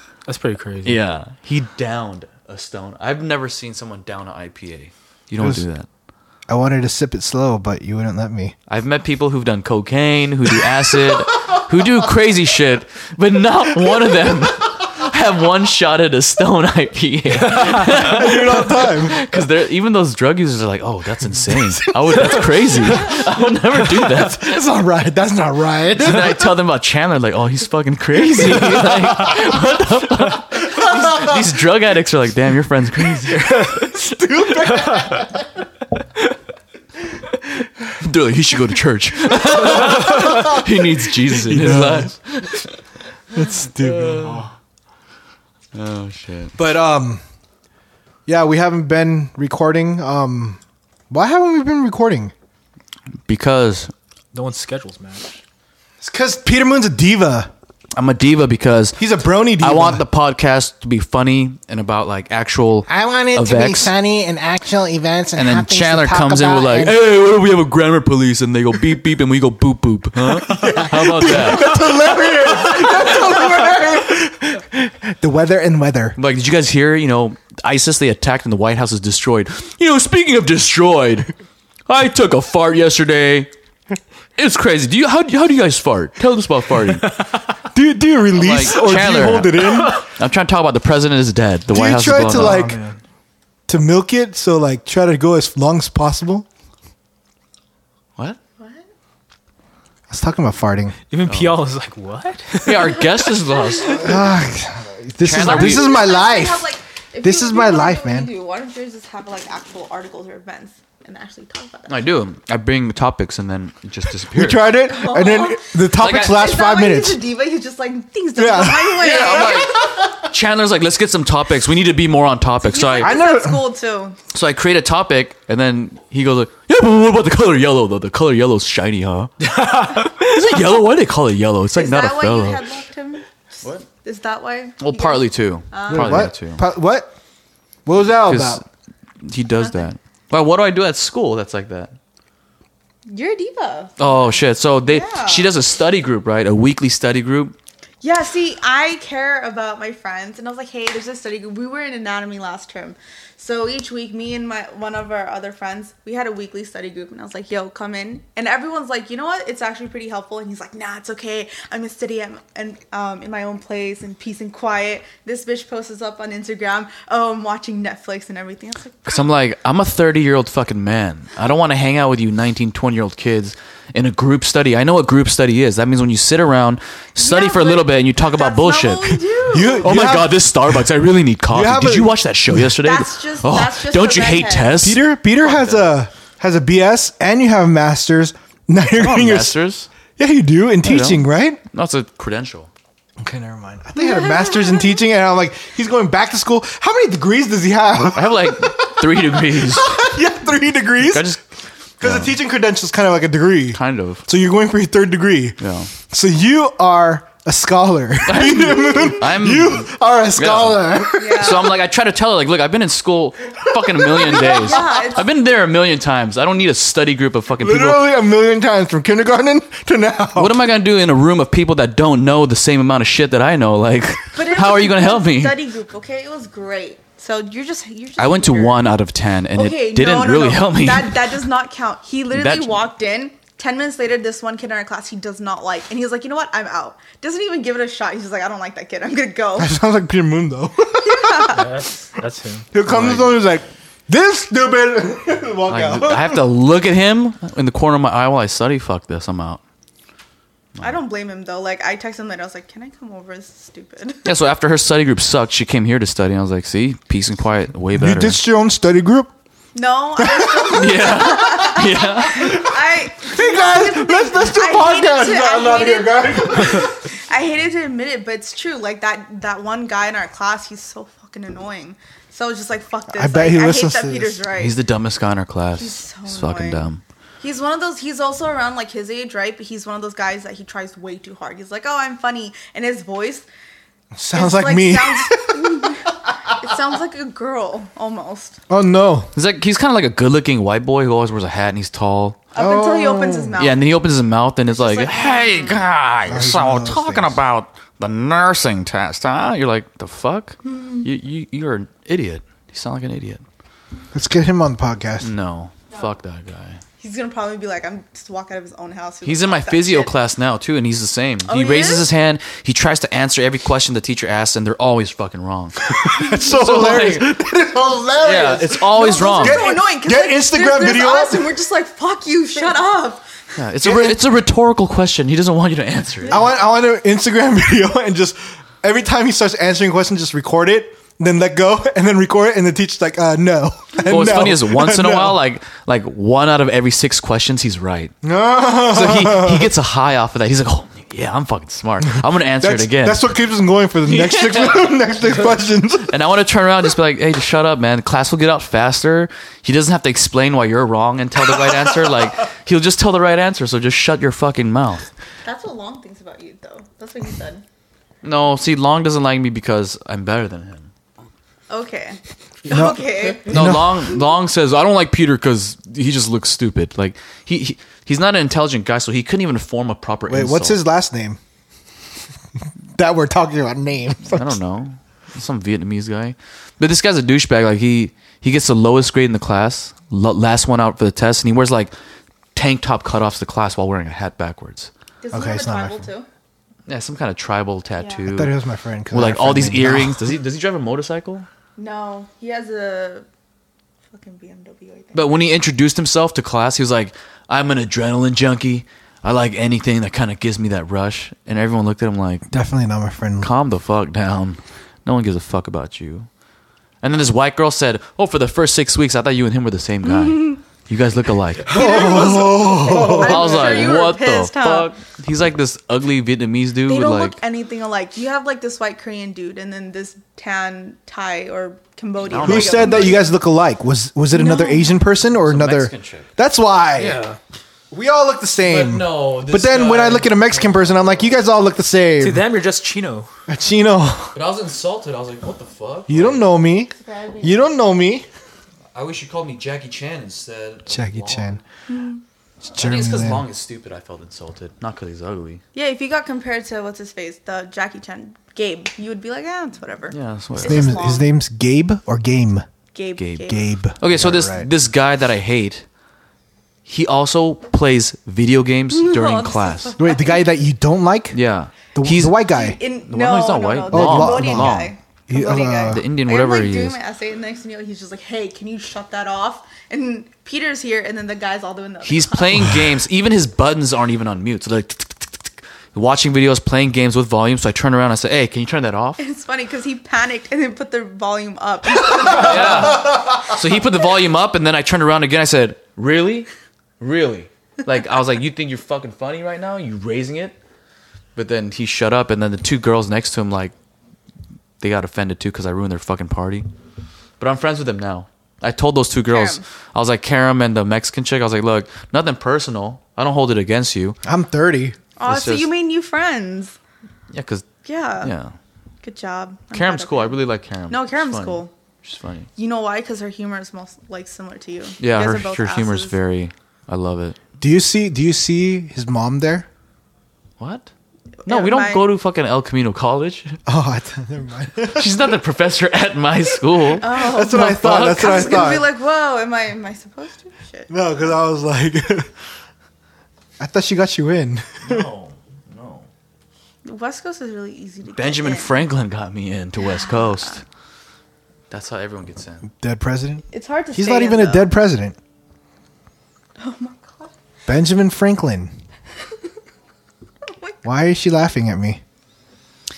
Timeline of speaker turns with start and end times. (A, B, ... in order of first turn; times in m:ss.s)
0:00.3-0:01.0 A
0:00.8-0:05.9 B
0:05.4-0:05.6 C
0:06.5-0:08.5 C
0:08.7-0:24.6 B
0:17.5-0:18.0 A
0:17.6-0:19.2 C
0:21.4-0:23.3 C
0:23.8-0:26.6 C
0:26.0-0:34.3 B
0:28.4-0:29.5 C
0:30.6-0:31.4 C
0:33.2-0:35.4 C
0:34.7-0:35.2 A
0:38.0-0:42.8 B
0:40.0-0:40.6 C
0:40.0-0:40.5 A
0:41.3-0:42.1 C
0:43.3-0:44.5 B
0:43.3-0:44.5 C
0:45.7-0:46.5 B
0:46.6-0:47.2 C
0:48.3-0:50.6 C
0:51.1-0:52.3 C
0:53.3-0:53.9 B
0:54.3-0:55.4 A
0:56.0-0:57.5 C
0:58.0-0:59.0 B
0:59.0-1:00.0 C
0:59.6-1:03.9 B
1:02.9-1:07.0 C
1:05.4-1:12.0 B
1:10.4-1:16.2 C
1:16.2-1:21.3 B
1:21.9-1:23.5 B
1:24.4-1:27.0 B
1:27.1-1:27.4 A
1:27.7-1:30.0 C
1:28.3-1:32.7 B
1:31.7-1:32.8 C
1:32.3-1:33.0 A
1:33.7-1:36.4 C
1:38.6-1:38.8 D
1:40.1-1:40.9 C
1:41.1-1:43.3 A
1:41.3-1:41.6 B
1:42.6-1:44.2 B
1:43.9-1:46.7 C
1:45.2-1:46.0 B
1:45.4-1:52.2 D
1:47.2-1:48.3 C
1:51.9-1:54.7 B
1:54.3-1:57.2 C
1:54.8-1:59.8 D
1:56.0-1:56.4 B
1:58.4-2:00.3 C
1:59.0-2:03.2 B
2:02.6-2:04.2 D
2:03.0-2:03.6 C
2:04.3-2:12.6 B
2:09.4-2:10.6 A
2:11.7-2:16.3 D
2:14.8-2:16.6 B
2:15.9-2:17.1 C
2:17.8-2:18.6 C
2:18.2-2:18.6 B
2:19.2-2:21.9 B
2:23.1-2:25.5 D
2:24.0-2:27.5 B
2:28.0-2:49.3 D
2:49.0-2:59.2 B
2:57.2-3:00.1 D
2:59.5-3:00.8 C
2:59.8-3:05.8 B
3:01.5-3:02.7 C
3:02.8-3:04.8 D
3:04.8-3:09.6 C
3:09.0-3:09.9 B
3:10.2-3:11.6 C
3:10.8-3:12.7 B
3:13.2-3:21.3 C
3:14.0-3:14.9 D
3:18.1-3:20.0 B
3:21.0-3:21.4 B
3:22.0-3:22.3 B
3:22.0-3:31.7 C
3:23.7-3:24.2 B
3:25.6-3:25.9 B
3:28.2-3:38.0 B
3:31.2-3:31.7 D
3:33.7-3:34.7 C
3:34.1-3:35.3 D
3:37.6-3:40.6 C
3:40.4-3:45.6 B
3:44.3-3:48.8 D
3:48.2-3:51.3 B
3:49.5-3:59.7 D
3:52.3-3:52.8 B
3:59.6-4:01.6 C
4:01.0-4:01.8 D
4:01.5-4:02.7 A
4:02.7-4:06.5 C
4:02.9-4:03.3 B
4:05.7-4:09.6 B
4:10.8-4:14.2 D
4:14.2-4:18.4 B
4:17.9-4:19.3 C
4:19.7-4:34.8 D
4:20.2-4:21.2 C
4:20.7-4:22.6 B
4:22.3-4:26.9 C
4:33.1-4:34.4 C
4:34.6-4:37.0 B
4:35.8-4:36.9 D
4:37.4-4:43.5 D
4:44.1-4:46.1 C
4:44.3-4:48.6 D
4:48.7-4:49.3 C
4:49.3-4:52.4 B
4:52.5-4:53.8 D
4:52.6-4:53.6 C
4:53.6-5:03.4 B
4:54.7-4:55.8 D
4:56.3-4:57.4 C
5:04.1-5:05.3 C
5:05.2-5:06.8 B
5:07.0-5:10.1 D
5:09.2-5:17.3 B
5:11.4-5:12.1 D
5:15.8-5:21.5 C
5:18.2-5:19.6 B
5:18.7-5:23.3 D
5:23.6-5:26.4 B
5:23.8-5:24.2 C
5:26.3-5:35.4 C
5:34.0-5:38.1 B
5:38.2-5:39.7 C
5:38.9-5:43.2 B
5:42.6-5:46.2 C
5:44.1-5:44.9 B
5:46.1-5:55.1 B
5:55.4-5:57.6 D
5:58.2-6:00.9 B
6:01.7-6:03.6 D
6:02.7-6:04.1 C
6:03.4-6:10.8 B
6:10.3-6:11.4 C
6:12.9-6:14.6 C
6:14.3-6:21.9 B
6:22.5-6:24.9 B
6:25.2-6:26.3 D
6:25.3-6:26.1 C
6:26.9-6:28.5 B
6:28.0-6:28.2 D
6:28.3-6:30.3 C
6:29.1-6:31.5 B
6:31.8-6:33.3 D
6:34.1-6:35.4 D
6:35.1-6:42.5 B
6:42.5-6:43.5 C
6:43.4-6:46.3 B
6:47.0-6:57.4 B
6:50.2-6:50.5 D
6:51.6-6:54.9 D
6:51.7-6:54.1 C
6:56.9-7:03.3 D
7:02.2-7:03.2 B
7:02.4-7:07.2 C
7:04.3-7:05.0 D
7:05.3-7:06.3 B
7:07.0-7:07.4 A
7:07.9-7:12.5 C
7:08.6-7:11.4 B
7:12.2-7:13.3 A
7:13.5-7:14.3 C
7:14.3-7:16.4 B
7:16.1-7:18.3 C
7:17.0-7:17.6 D
7:18.9-7:21.6 B
7:20.9-7:21.6 C
7:21.9-7:22.2 D
7:22.6-7:23.5 C
7:22.8-7:25.6 B
7:25.7-7:31.3 D
7:30.1-7:31.0 B
7:30.6-7:32.6 C
7:32.9-7:33.6 D
7:33.2-7:35.8 B
7:33.4-7:34.7 C
7:36.9-7:39.9 B
7:38.9-7:40.4 D
7:40.0-7:41.4 C
7:41.3-7:42.4 B
7:41.9-7:42.8 C
7:42.4-7:52.6 D
7:43.0-7:44.9 B
7:43.9-7:46.1 C
7:45.9-7:47.0 B
7:52.0-7:59.2 B
7:59.2-8:03.2 D
8:02.0-8:06.5 B
8:07.0-8:10.5 B
8:11.3-8:13.7 B
8:14.8-8:16.7 B
8:17.4-8:24.2 B
8:19.3-8:19.6 D
8:24.2-8:25.0 C
8:25.2-8:26.8 D
8:25.2-8:25.7 B
8:27.3-8:27.7 B
8:27.8-8:28.3 D
8:28.2-8:28.5 B
8:29.0-8:31.7 D
8:29.7-8:32.5 B
8:32.6-8:36.2 D
8:35.0-8:37.4 B
8:37.6-8:39.6 C
8:40.6-8:40.9 B
8:41.4-8:42.1 D
8:41.4-8:43.6 B
8:43.7-8:45.2 C
8:44.9-8:48.7 B
8:47.0-8:51.0 D
8:47.1-8:48.9 C
8:50.9-8:52.3 C
8:53.6-8:55.1 C
8:54.8-8:56.1 B
8:56.8-8:58.9 D
8:58.1-9:00.6 B
8:59.9-9:00.6 D
9:01.7-9:02.6 B
9:02.7-9:05.2 C
9:03.5-9:04.7 D
9:06.6-9:07.3 D
9:07.7-9:08.7 C
9:10.4-9:10.8 D
9:10.8-9:12.0 C